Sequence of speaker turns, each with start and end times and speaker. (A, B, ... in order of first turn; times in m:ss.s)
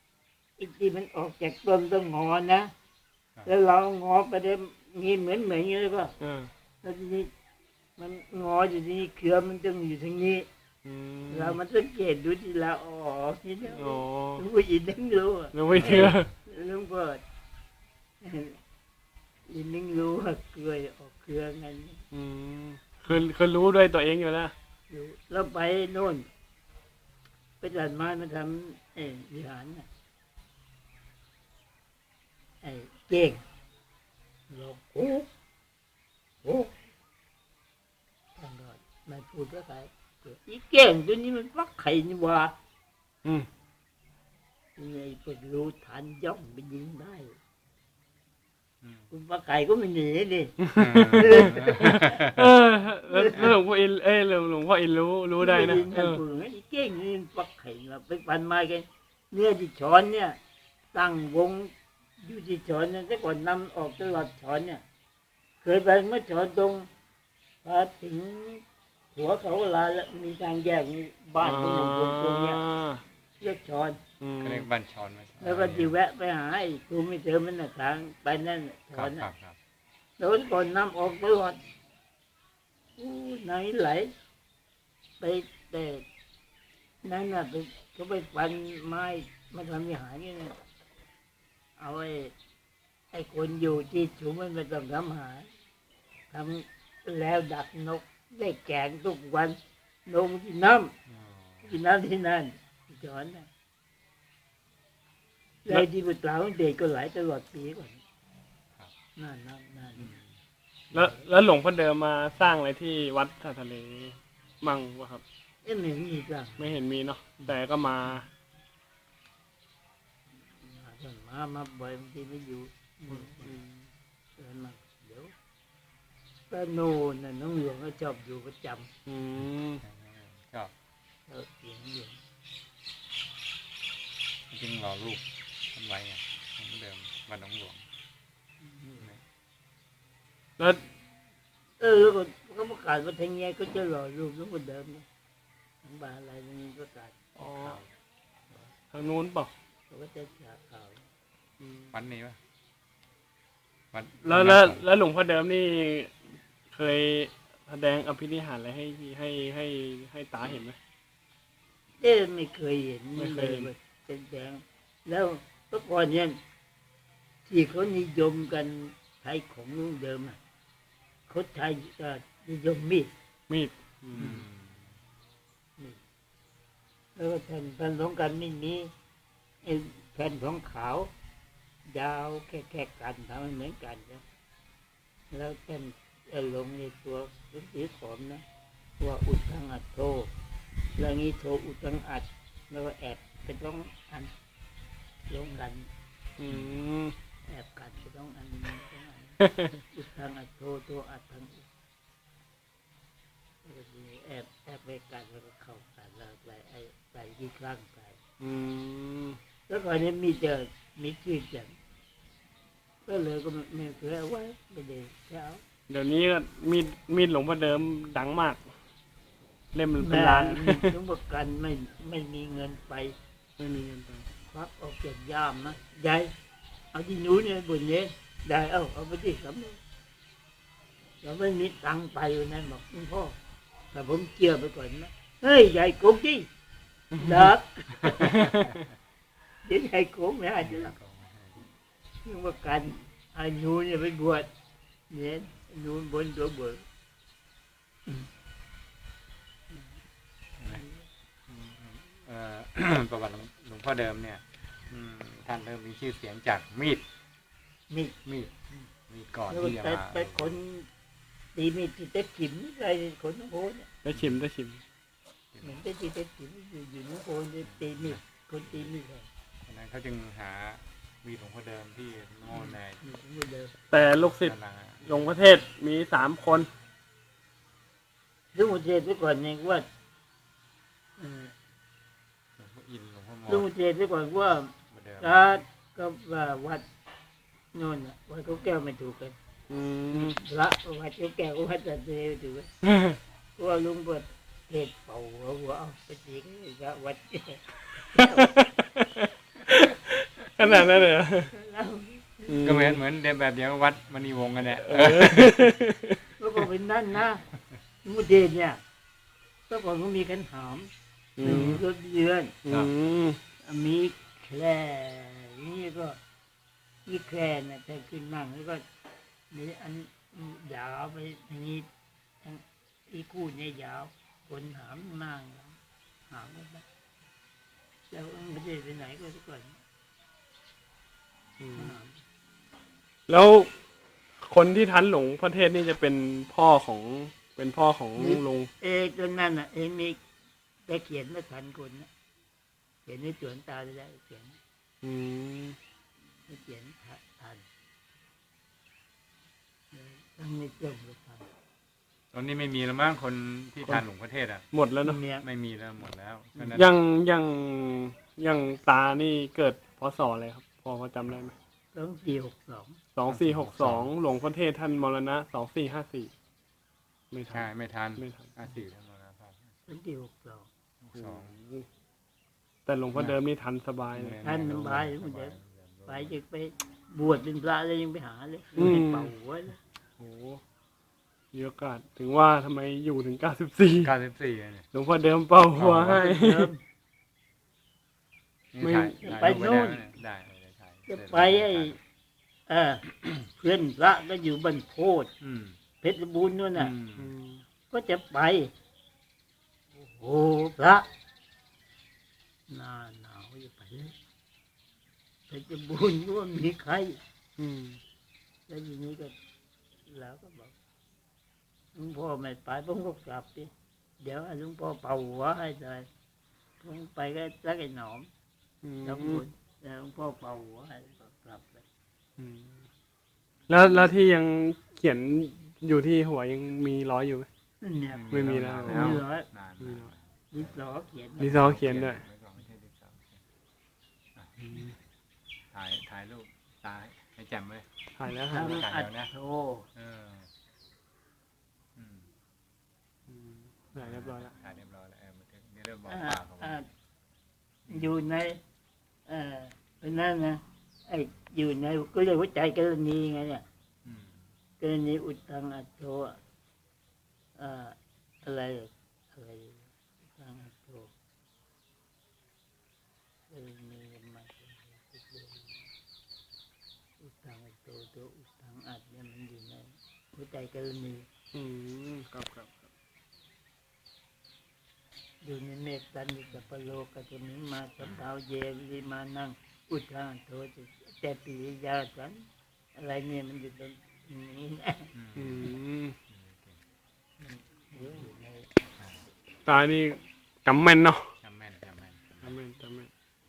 0:00.6-0:02.7 A
0:03.4-0:06.1 A
0:06.2-0:06.5 B
0:06.8-0:07.3 A
0:08.0-0:10.5 A
0:10.8-0:11.6 B
0:11.3-0:17.2 A
0:13.7-0:14.4 B
0:15.5-0:16.3 B
0:15.8-0:16.1 C
0:18.2-0:18.6 A
0:19.5-0:22.0 A
0:22.1-0:24.5 B
0:24.9-0:26.3 A
0:27.6-0:29.9 A
0:32.6-0:33.4 A
0:34.5-0:35.3 A
0:36.4-0:36.7 A
0:38.4-0:42.5 A
0:44.8-0:47.4 A
0:48.8-0:49.1 C
0:49.1-0:52.2 A
0:50.6-0:56.2 B
0:50.7-0:52.5 C
0:53.1-0:53.5 A
0:55.4-1:00.4 A
1:00.9-1:04.8 A
1:05.6-1:06.9 A
1:07.6-1:08.6 A
1:09.1-1:12.6 A
1:11.4-1:13.0 B
1:13.4-1:14.0 A
1:14.2-1:14.7 B
1:14.4-1:15.9 C
1:15.4-1:19.3 A
1:18.9-1:19.6 C
1:20.2-1:21.6 A
1:23.0-1:24.1 A
1:25.2-1:26.0 A
1:27.0-1:30.6 A
1:31.8-1:32.3 A
1:33.1-1:35.5 A
1:36.3-1:40.9 A
1:41.1-1:41.7 C
1:41.6-1:43.5 A
1:45.6-1:48.0 A
1:49.2-1:50.1 A
1:50.0-1:50.3 C
1:50.9-1:55.2 B
1:55.6-1:56.7 A
1:56.6-1:58.3 B
2:00.5-2:03.5 A
2:03.1-2:03.9 B
2:04.4-2:05.3 A
2:06.5-2:08.9 A
2:09.1-2:09.8 B
2:09.8-2:10.7 C
2:11.3-2:12.2 A
2:14.5-2:17.8 C
2:18.6-2:19.1 A
2:21.8-2:25.0 A
2:25.8-2:27.7 A
2:27.4-2:27.8 B
2:28.9-2:29.5 B
2:29.9-2:31.0 A
2:31.6-2:31.9 B
2:31.9-2:32.4 C
2:33.9-2:34.8 C
2:34.2-2:36.1 B
2:36.7-2:40.8 B
2:42.0-2:46.4 A
2:43.2-2:43.7 B
2:47.4-2:50.4 A
2:51.3-2:53.1 A
2:53.5-2:54.4 B
2:54.1-2:54.9 C
2:57.2-2:58.9 A
2:59.6-3:01.1 A
3:01.9-3:04.2 A
3:05.3-3:08.4 A
3:09.0-3:10.3 A
3:11.0-3:14.3 A
3:15.3-3:15.9 A
3:16.4-3:17.1 B
3:17.5-3:21.7 A
3:19.4-3:19.7 B
3:23.6-3:28.2 A
3:28.4-3:29.4 B
3:29.7-3:31.7 A
3:33.0-3:35.6 A
3:35.9-3:38.6 B
3:39.7-3:40.9 B
3:40.0-3:43.1 A
3:43.6-3:44.2 B
3:44.4-3:46.3 A
3:46.9-3:49.8 A
3:51.2-3:53.4 A
3:53.9-3:56.5 A
3:57.1-3:57.5 B
3:57.2-3:58.3 A
3:58.0-3:58.8 C
3:58.2-3:58.7 B
3:59.6-4:00.9 A
4:00.6-4:01.6 C
4:02.2-4:04.5 A
4:05.1-4:06.8 A
4:09.7-4:10.0 A
4:10.6-4:10.8 C
4:10.6-4:11.0 A
4:11.5-4:17.0 C
4:17.9-4:18.2 A
4:18.2-4:18.5 C
4:19.1-4:20.5 C
4:19.5-4:20.9 A
4:21.5-4:23.9 A
4:24.0-4:24.8 B
4:24.1-4:24.4 C
4:25.5-4:25.8 C
4:25.6-4:29.3 A
4:27.6-4:28.2 C
4:29.6-4:33.0 C
4:32.5-4:33.8 A
4:33.9-4:36.7 B
4:34.4-4:35.1 C
4:38.5-4:39.8 A
4:41.2-4:41.5 A
4:42.6-4:43.7 C
4:43.5-4:46.8 A
4:44.9-4:45.4 C
4:47.7-4:49.3 A
4:49.7-4:50.4 B
4:50.1-4:52.7 A
4:52.8-4:53.2 B
4:53.6-4:58.6 A
4:58.2-5:01.5 B
5:00.6-5:00.9 A
5:01.5-5:02.6 A
5:02.5-5:03.0 B
5:02.6-5:05.7 C
5:04.8-5:06.2 B
5:06.4-5:07.4 A
5:08.0-5:08.8 A
5:09.7-5:10.9 A
5:11.4-5:11.8 B
5:11.4-5:12.5 A
5:11.4-5:11.8 C
5:12.6-5:13.4 B
5:12.7-5:12.9 C
5:13.6-5:16.2 A
5:17.0-5:18.8 A
5:19.5-5:21.9 A
5:22.4-5:25.8 A
5:26.3-5:26.8 A
5:28.1-5:29.8 A
5:31.6-5:32.0 B
5:31.8-5:32.2 A
5:33.3-5:33.7 B
5:34.4-5:38.7 B
5:38.2-5:40.2 A
5:40.9-5:42.1 A
5:43.0-5:44.6 A
5:45.0-5:45.8 B
5:46.5-5:47.6 A
5:49.9-5:51.5 A
5:52.3-5:54.7 C
5:54.7-5:55.2 B
5:55.0-5:55.4 A
5:55.4-5:56.9 C
5:56.7-6:01.5 B
6:01.9-6:03.0 A
6:03.1-6:06.3 B
6:03.3-6:04.1 C
6:07.3-6:08.5 B
6:07.5-6:09.7 C
6:09.8-6:10.7 A
6:11.0-6:11.6 C
6:11.1-6:11.9 B
6:12.9-6:14.4 B
6:14.1-6:16.4 C
6:14.4-6:15.5 A
6:16.1-6:19.8 A
6:18.8-6:19.3 B
6:20.2-6:20.6 B
6:21.5-6:24.1 B
6:24.0-6:24.9 C
6:24.9-6:26.7 B
6:25.8-6:26.2 C
6:26.1-6:26.8 A
6:28.7-6:32.0 C
6:28.8-6:29.2 B
6:29.2-6:30.0 A
6:31.1-6:32.0 A
6:32.7-6:35.3 A
6:35.4-6:35.8 C
6:36.0-6:36.9 A
6:36.7-6:37.3 C
6:37.2-6:37.6 B
6:37.9-6:38.7 A
6:39.9-6:41.1 A
6:42.7-6:44.2 A
6:45.5-6:47.2 A
6:47.6-6:48.0 B
6:48.7-6:49.3 A
6:50.1-6:50.7 A
6:51.9-6:56.1 A
6:56.8-6:58.3 A
6:58.8-6:59.5 B
6:59.0-7:01.8 A
7:02.4-7:02.8 B
7:03.7-7:07.5 B
7:07.8-7:09.5 A
7:08.1-7:10.3 C
7:08.3-7:09.2 B
7:09.8-7:10.1 B
7:10.5-7:11.6 A
7:11.4-7:12.2 B
7:11.5-7:13.4 C
7:14.6-7:14.9 B
7:15.7-7:17.9 C
7:18.2-7:18.8 B
7:18.5-7:19.3 C
7:18.5-7:19.9 A
7:19.9-7:20.5 C
7:22.0-7:22.3 C
7:23.3-7:24.5 B
7:24.0-7:26.8 C
7:26.1-7:26.8 A
7:27.9-7:28.2 C
7:27.9-7:28.6 A
7:29.3-7:33.6 A
7:34.0-7:34.5 C
7:34.8-7:36.4 A
7:37.6-7:41.1 A
7:43.5-7:45.8 A
7:47.2-7:51.2 A
7:51.5-7:52.9 B
7:55.4-8:05.1 A
8:05.1-8:05.7 C
8:05.4-8:06.2 B
8:06.3-8:06.8 C
8:07.4-8:08.7 A
8:09.0-8:09.2 C
8:09.6-8:11.3 B
8:11.4-8:12.5 C
8:12.4-8:13.1 B